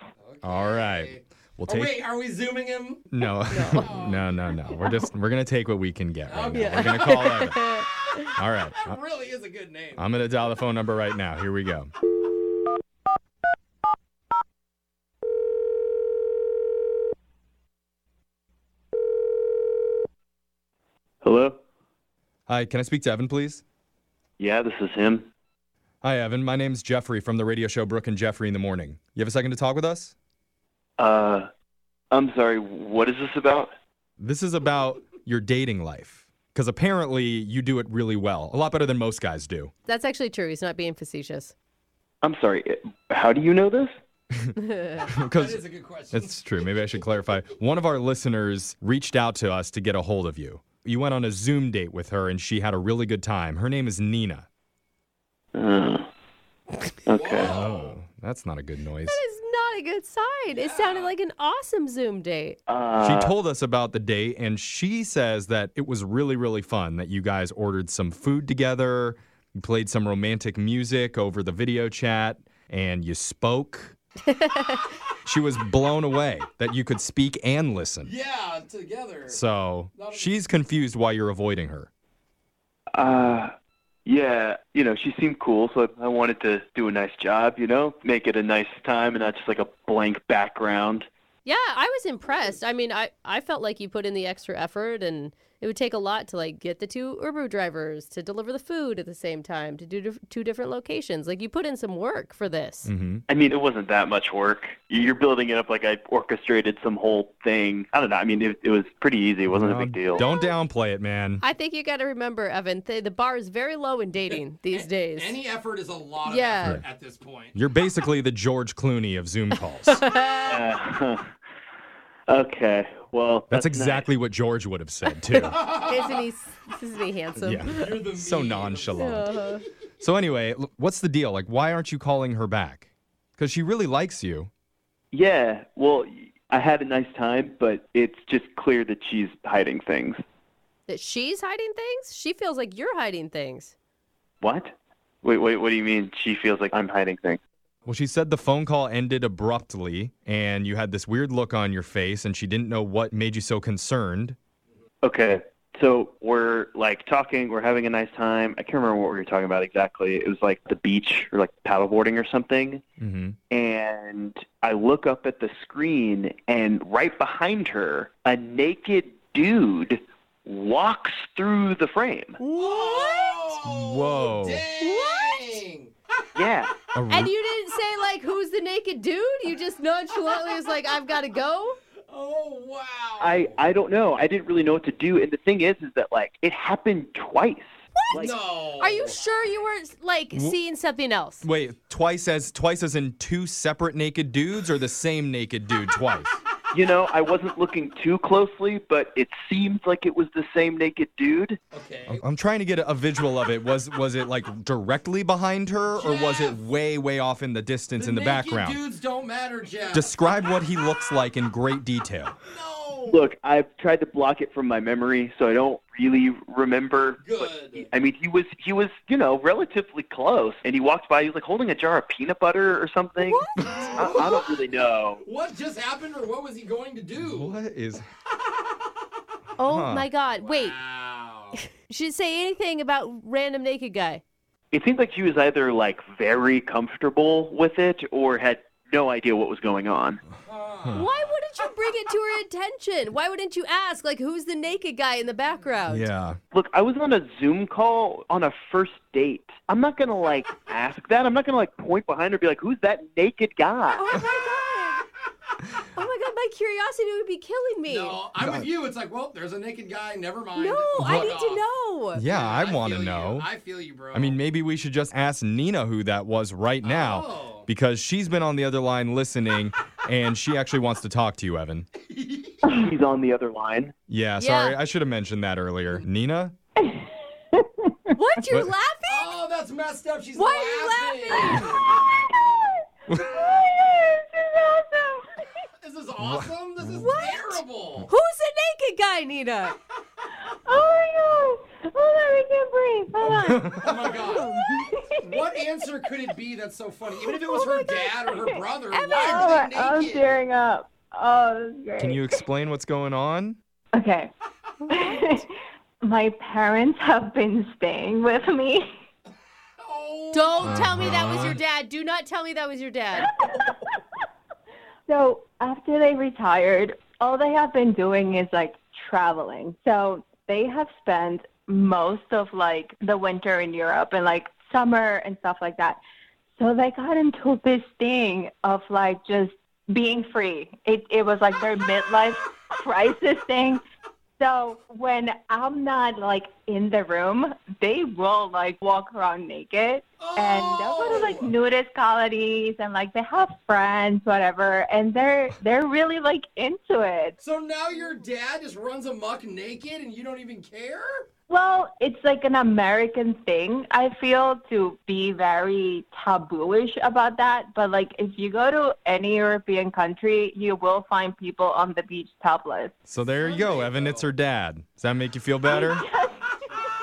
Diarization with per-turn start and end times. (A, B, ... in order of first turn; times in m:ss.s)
0:00.2-0:03.1 A
0:00.4-0:02.0 B
0:03.1-0:07.6 B
0:03.5-0:03.9 C
0:03.8-0:04.6 A
0:06.2-0:08.1 A
0:06.5-0:08.3 C
0:08.4-0:09.0 B
0:08.7-0:10.0 A
0:10.0-0:11.9 B
0:21.2-0:21.6 D
0:22.5-0:23.6 B
0:24.4-0:25.3 D
0:26.0-0:30.1 B
0:31.0-0:31.5 D
0:32.1-0:33.7 D
0:34.2-0:39.7 B
0:39.8-0:41.5 C
0:42.2-0:43.9 D
0:44.3-0:54.5 B
0:44.6-0:45.0 C
0:45.3-0:46.4 A
0:55.5-0:56.1 D
0:57.0-0:57.6 D
0:57.1-0:58.0 A
0:57.4-0:59.2 B
0:59.1-1:02.6 C
1:00.5-1:01.1 A
1:02.7-1:03.3 D
1:03.0-1:14.0 B
1:14.3-1:14.8 C
1:15.2-1:18.1 B
1:18.0-1:19.4 A
1:19.3-1:21.9 B
1:19.9-1:20.4 A
1:23.0-1:23.5 D
1:24.0-1:31.1 D
1:31.4-1:42.9 C
1:42.8-1:43.2 B
1:43.3-1:50.2 D
1:49.5-1:51.4 B
1:50.1-1:50.5 C
1:51.4-1:55.4 C
1:54.3-1:57.6 A
1:56.2-1:56.8 C
1:57.5-2:00.0 B
1:59.8-2:00.6 C
2:00.5-2:01.2 D
2:02.3-2:04.1 D
2:03.5-2:05.6 B
2:05.3-2:06.2 A
2:05.7-2:08.0 C
2:07.4-2:09.3 B
2:07.6-2:09.6 A
2:09.0-2:09.6 C
2:10.0-2:12.9 B
2:13.4-2:14.5 B
2:15.1-2:20.2 D
2:20.9-2:23.7 C
2:24.4-2:27.4 D
2:27.8-2:34.4 B
2:35.0-2:42.8 D
2:43.0-2:43.4 B
2:43.5-2:52.4 D
2:52.4-2:53.5 C
2:52.6-2:55.9 A
2:53.6-2:54.6 B
2:54.8-2:55.5 C
2:56.3-2:56.7 D
2:56.9-2:57.3 B
2:57.1-3:01.8 C
3:02.1-3:03.6 A
3:03.2-3:08.3 D
3:08.1-3:09.2 A
3:08.8-3:11.4 C
3:10.3-3:10.6 B
3:11.4-3:16.4 B
3:16.7-3:21.6 D
3:21.7-3:22.2 A
3:22.1-3:28.8 B
3:25.9-3:26.6 A
3:28.0-3:30.1 A
3:29.9-3:32.4 B
3:32.5-3:33.2 A
3:33.1-3:43.4 D
3:37.2-3:37.9 A
3:43.2-3:44.3 C
3:43.8-3:47.6 A
3:44.0-3:45.2 D
3:47.2-3:48.0 B
3:49.6-3:50.7 C
3:49.6-3:50.1 B
3:50.3-3:51.6 A
3:51.8-3:54.2 C
3:54.7-4:00.2 D
4:00.4-4:01.0 A
4:00.8-4:01.1 B
4:00.9-4:06.1 C
4:05.9-4:06.4 B
4:06.5-4:14.1 D
4:13.9-4:15.0 C
4:15.9-4:18.2 C
4:17.8-4:21.6 A
4:18.4-4:18.7 B
4:20.6-4:22.2 C
4:21.0-4:21.3 B
4:22.1-4:23.5 B
4:22.2-4:24.4 A
4:24.1-4:31.9 B
4:26.8-4:27.7 A
4:32.0-4:32.6 A
4:32.7-4:33.9 D
4:34.1-4:36.5 B
4:34.4-4:34.8 C
4:36.8-4:37.9 E
4:38.1-4:39.3 C
4:38.5-4:38.7 B
4:39.0-4:41.9 A
4:40.4-4:41.6 C
4:41.5-4:45.5 E
4:45.8-4:48.1 A
4:46.2-4:46.4 B
4:46.8-4:49.7 C
4:50.5-4:55.6 E
4:53.2-4:53.6 C
4:53.3-4:54.0 B
4:53.8-4:54.5 A
4:54.3-4:54.9 C
4:55.2-5:00.4 A
4:57.5-4:58.6 E
4:58.9-4:59.5 C
4:59.1-5:02.3 E
5:02.0-5:03.6 B
5:03.9-5:04.3 E
5:04.9-5:05.2 C
5:04.9-5:05.5 E
5:06.0-5:08.9 E
5:09.8-5:11.6 A
5:10.3-5:13.3 C
5:10.6-5:11.6 B
5:13.1-5:14.0 E
5:15.1-5:26.0 E
5:26.6-5:33.8 E
5:34.4-5:47.4 E
5:40.2-5:41.5 A
5:47.4-5:51.3 A
5:51.5-6:02.9 E
6:03.1-6:06.0 B
6:03.4-6:04.3 A
6:05.6-6:06.5 E